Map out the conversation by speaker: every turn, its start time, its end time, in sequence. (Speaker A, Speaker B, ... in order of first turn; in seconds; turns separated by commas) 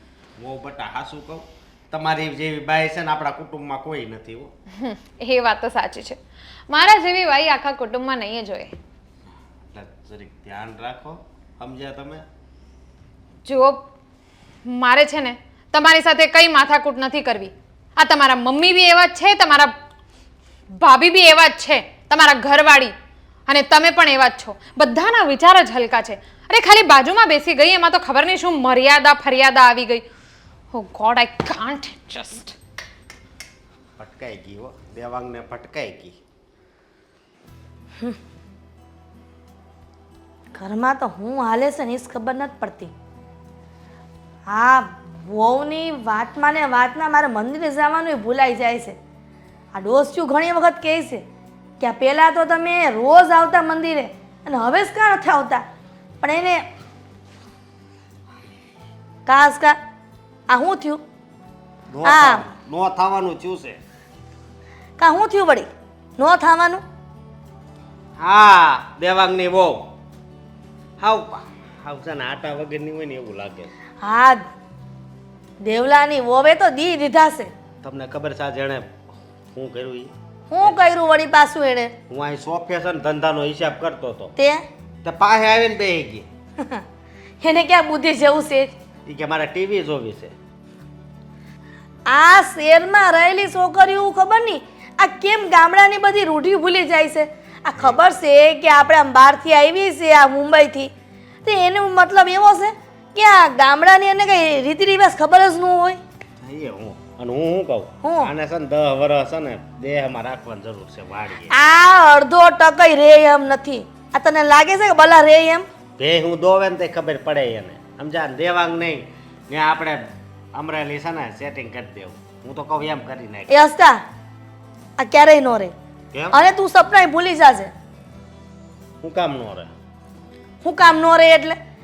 Speaker A: 0.4-4.5, Speaker B: 4.8-8.8, Speaker A: 9.7-12.2, Speaker B: 13.4-13.9, Speaker B: 14.7-19.7, Speaker B: 20.7-22.9, Speaker B: 23.5-30.0, Speaker B: 30.7-32.5, Speaker A: 34.0-36.2, Speaker C: 40.5-42.9, Speaker C: 44.5-49.0, Speaker C: 49.7-51.2, Speaker C: 51.8-55.6, Speaker C: 56.2-56.6, Speaker C: 59.3-59.8, Speaker C: 60.5-61.0, Speaker A: 61.9-63.8, Speaker C: 62.0-62.5, Speaker C: 65.0-66.8, Speaker A: 68.2-69.9, Speaker A: 71.0-73.7, Speaker C: 74.0-74.4, Speaker C: 75.6-77.5, Speaker A: 77.8-78.9, Speaker A: 79.5-80.8, Speaker C: 80.5-81.9, Speaker A: 82.1-84.3, Speaker C: 84.4-84.7, Speaker A: 85.0-86.3, Speaker C: 87.4-88.7, Speaker A: 89.1-90.3, Speaker C: 92.1-100.9, Speaker C: 101.4-106.0, Speaker A: 106.4-111.5, Speaker C: 108.0-108.3, Speaker C: 111.5-115.7, Speaker A: 116.0-120.0, Speaker A: 120.5-123.5, Speaker C: 123.5-124.0, Speaker C: 125.0-125.7, Speaker C: 126.3-127.7, Speaker A: 129.0-129.7, Speaker C: 130.6-131.6